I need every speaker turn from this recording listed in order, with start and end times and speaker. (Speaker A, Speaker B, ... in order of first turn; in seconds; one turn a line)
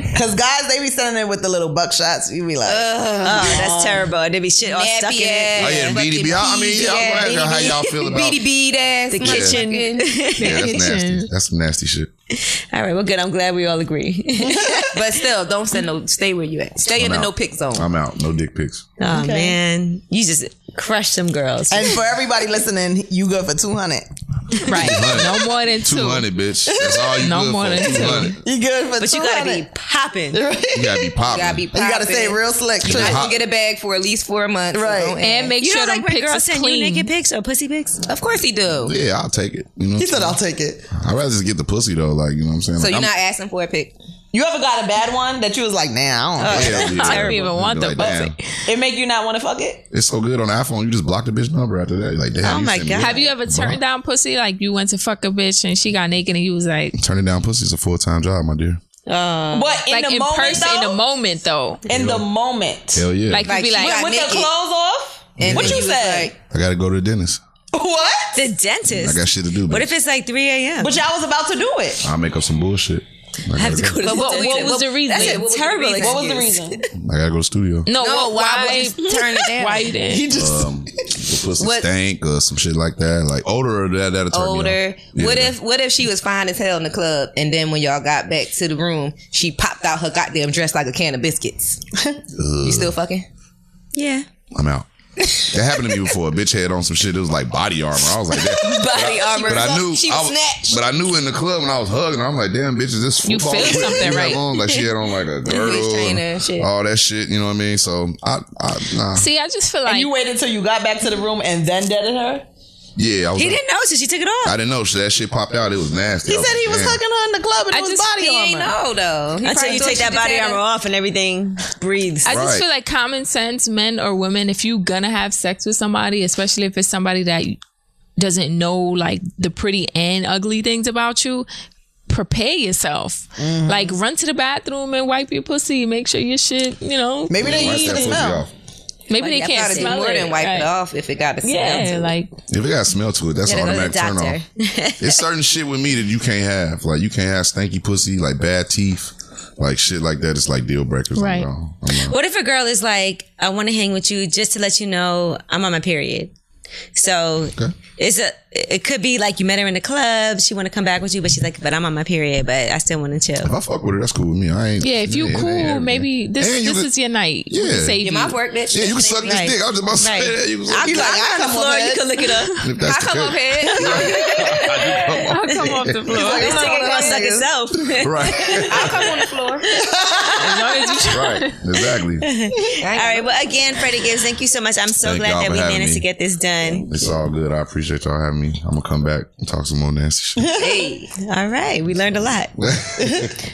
Speaker A: 0.1-4.1
Speaker B: 2.6-3.7
Speaker C: 3.2-6.0
Speaker B: 4.6-10.2
Speaker D: 5.6-8.4
Speaker C: 9.1-10.8
Speaker D: 9.2-9.6
Speaker E: 10.4-11.3
Speaker D: 10.4-12.1
Speaker C: 12.3-15.0
Speaker A: 14.4-14.9
Speaker B: 14.9-17.9
Speaker D: 16.9-18.9
Speaker C: 19.0-21.9
Speaker A: 19.1-19.6
Speaker A: 21.7-24.1
Speaker A: 24.6-25.0
Speaker E: 24.6-26.2
Speaker D: 24.7-28.3
Speaker A: 26.7-27.1
Speaker E: 27.2-28.4
Speaker A: 27.9-29.6
Speaker C: 29.0-30.4
Speaker A: 30.3-31.2
Speaker D: 30.7-31.7
Speaker B: 31.3-35.5
Speaker A: 31.7-33.2
Speaker D: 32.8-33.4
Speaker A: 34.7-35.2
Speaker E: 35.2-37.1
Speaker C: 35.6-38.0
Speaker B: 38.1-38.9
Speaker D: 38.8-40.4
Speaker A: 40.0-40.9
Speaker D: 40.9-43.1
Speaker B: 42.8-43.9
Speaker A: 44.3-47.4
Speaker C: 46.4-47.3
Speaker D: 46.5-48.4
Speaker E: 46.7-48.4
Speaker A: 48.0-49.8
Speaker D: 49.9-53.8
Speaker C: 52.4-53.2
Speaker E: 53.0-57.0
Speaker D: 57.0-58.8
Speaker C: 59.1-59.8
Speaker A: 59.5-61.0
Speaker E: 59.9-61.8
Speaker A: 61.9-63.1
Speaker D: 61.9-62.2
Speaker D: 62.9-63.5
Speaker E: 63.3-64.0
Speaker B: 63.4-64.5
Speaker A: 63.7-66.3
Speaker B: 65.4-66.3
Speaker D: 65.4-65.9
Speaker D: 66.5-67.4
Speaker A: 67.7-68.4
Speaker C: 68.3-71.0
Speaker D: 69.0-69.9
Speaker A: 70.8-72.1
Speaker D: 72.0-74.0
Speaker C: 73.5-76.9
Speaker B: 74.0-76.5
Speaker E: 74.0-75.5
Speaker A: 76.0-76.8
Speaker D: 76.9-77.9
Speaker E: 77.8-80.3
Speaker B: 78.0-79.9
Speaker A: 80.0-80.7
Speaker D: 80.3-85.5
Speaker B: 81.6-81.9
Speaker B: 84.3-91.8
Speaker D: 92.3-93.0
Speaker B: 92.6-93.2
Speaker C: 93.9-94.2
Speaker D: 94.5-94.8
Speaker B: 95.2-96.1
Speaker D: 95.4-109.3
Speaker B: 98.3-100.8
Speaker E: 103.2-104.5
Speaker B: 105.4-106.7
Speaker E: 109.1-110.1
Speaker A: 109.8-112.4
Speaker D: 113.0-113.6
Speaker C: 113.4-114.6
Speaker D: 114.4-117.0
Speaker A: 116.3-118.7
Speaker E: 117.7-118.1
Speaker B: 118.2-120.6
Speaker C: 119.4-122.3
Speaker E: 122.2-127.6
Speaker D: 122.3-122.6
Speaker E: 128.2-131.5
Speaker E: 132.1-138.3
Speaker A: 133.4-134.0
Speaker A: 137.3-138.4
Speaker D: 137.4-138.5
Speaker E: 139.1-140.7
Speaker C: 139.1-140.0
Speaker B: 139.2-142.1
Speaker E: 141.4-142.3
Speaker D: 142.5-144.4
Speaker C: 143.5-145.2
Speaker B: 143.5-144.2
Speaker D: 145.0-152.1
Speaker E: 151.1-151.5
Speaker C: 152.0-156.3
Speaker C: 156.9-163.5
Speaker D: 163.4-166.9
Speaker E: 164.8-168.4
Speaker D: 167.5-168.0
Speaker B: 168.0-169.5
Speaker D: 168.7-171.1
Speaker C: 169.2-172.6
Speaker A: 170.8-172.0
Speaker D: 172.6-176.1
Speaker B: 172.8-175.2
Speaker C: 173.7-174.9
Speaker E: 175.2-176.7
Speaker A: 176.1-177.5
Speaker B: 176.1-177.4
Speaker C: 176.2-178.9
Speaker D: 177.9-179.0
Speaker B: 178.7-179.7
Speaker A: 179.7-180.9
Speaker E: 180.3-181.7
Speaker D: 181.1-182.2
Speaker C: 182.2-186.9
Speaker B: 182.8-183.4
Speaker D: 185.0-186.0
Speaker D: 186.8-190.5
Speaker A: 190.4-190.9
Speaker B: 190.6-191.1
Speaker C: 191.2-192.5
Speaker D: 192.6-193.3
Speaker A: 193.0-193.3